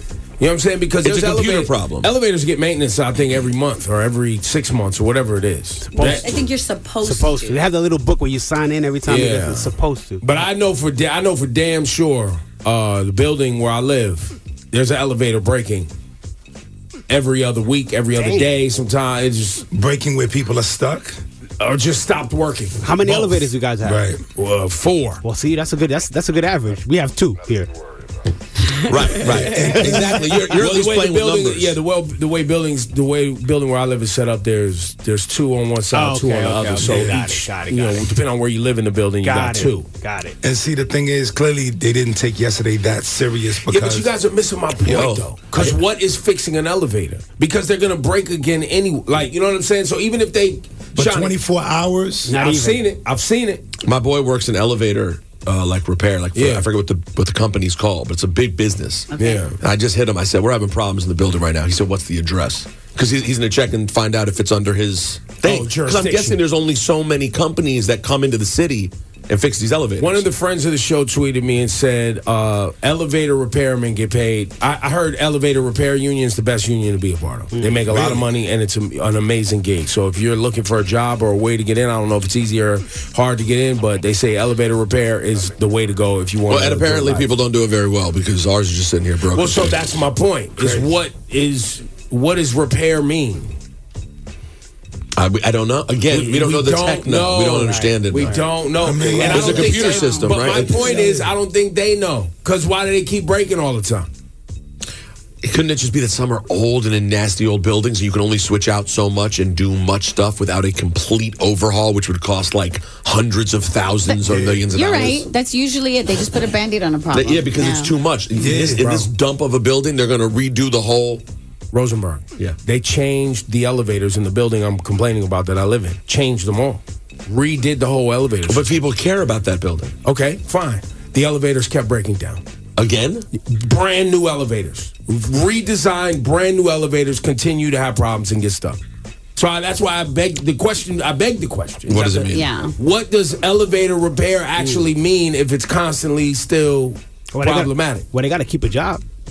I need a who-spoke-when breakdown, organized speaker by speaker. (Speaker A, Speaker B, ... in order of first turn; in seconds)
Speaker A: 0.4-6.3, 9.1-15.9, 17.1-19.6, 21.6-23.5, 24.4-25.2, 29.7-39.9, 43.7-51.3, 52.3-53.6, 56.3-56.6, 59.2-59.6, 65.4-66.4, 70.0-87.3, 89.3-93.5, 96.1-104.1, 121.7-128.7, 130.0-132.4, 133.4-138.8, 139.3-148.1
Speaker B: 1.0-2.1, 28.9-31.8, 44.9-45.7, 53.8-70.2, 86.5-89.9, 95.2-98.4, 99.3-100.7, 105.4-115.3, 117.1-121.2, 128.5-129.9, 132.8-133.3, 141.9-142.5
Speaker C: 5.8-6.4, 7.0-10.2, 18.1-18.5, 22.8-24.1, 25.2-27.7, 35.9-38.1, 39.2-40.4, 52.2-52.8, 77.5-77.9, 97.6-98.5, 144.6-144.8, 147.3-149.0
Speaker D: 6.0-7.6, 59.1-59.5, 99.3-100.4, 114.7-118.0, 142.3-142.7
Speaker E: 19.7-21.2, 23.8-24.2, 29.2-30.3, 36.8-37.2, 40.4-44.1, 50.9-52.4, 77.9-78.3, 90.6-90.9, 98.8-99.5, 100.6-101.3, 114.2-114.6, 118.3-119.1